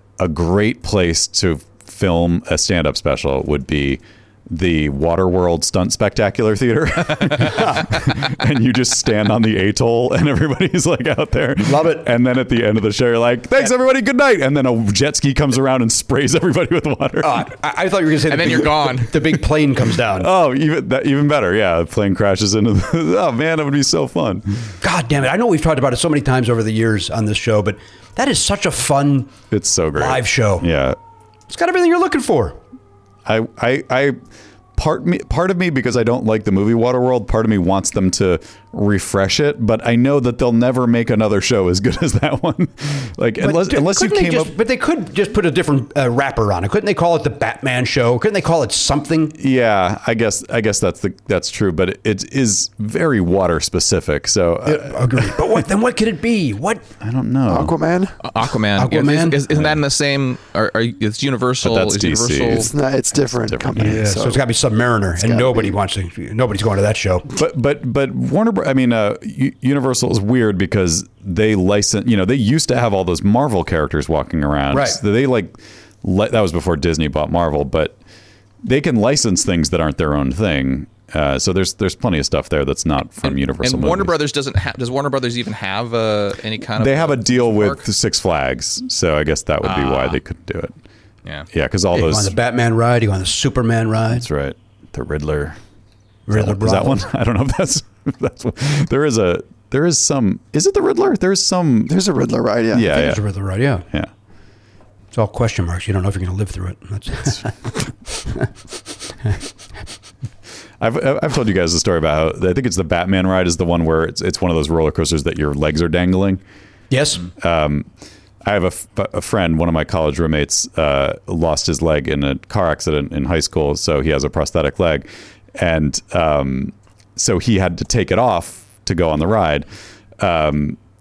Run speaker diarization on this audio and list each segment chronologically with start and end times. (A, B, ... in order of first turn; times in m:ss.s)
0:00.2-0:17.5 A
0:07.6-0:07.8 B
0:11.6-0:12.1 B
0:17.2-0:20.3 B
0:18.3-0:19.2 C
0:20.2-0:24.6 A
0:24.8-0:29.3 B
0:29.5-0:31.0 A
0:30.0-0:30.7 B
0:31.5-0:32.6 B
0:33.3-0:34.2 A
0:34.8-0:44.5 A
0:43.4-0:49.4 B
0:49.4-0:55.4 A
0:54.6-0:56.8 B
0:57.0-0:57.8 A
0:57.5-0:58.2 D
0:58.2-1:02.7 C
0:58.8-0:59.4 B
0:59.5-0:59.8 A
1:01.6-1:02.7 A
1:02.5-1:04.4 D
1:03.4-1:04.1 A
1:03.8-1:07.3 B
1:05.2-1:05.7 D
1:07.3-1:18.0 A
1:14.7-1:15.0 B
1:18.6-1:24.1 A
1:23.3-1:27.8 C
1:26.8-1:30.7 A
1:29.6-1:30.2 C
1:31.5-1:32.3 A
1:31.9-1:34.2 B
1:34.1-1:35.6 A
1:36.3-1:37.1 B
1:36.3-1:42.0 A
1:41.9-1:42.9 D
1:42.7-1:43.2 A
1:42.8-1:43.9 B
1:45.1-1:48.5 B
1:50.8-1:56.4 A
1:56.9-1:57.2 B
1:57.4-1:57.9 A
1:58.4-2:09.7 A
2:10.2-2:10.8 A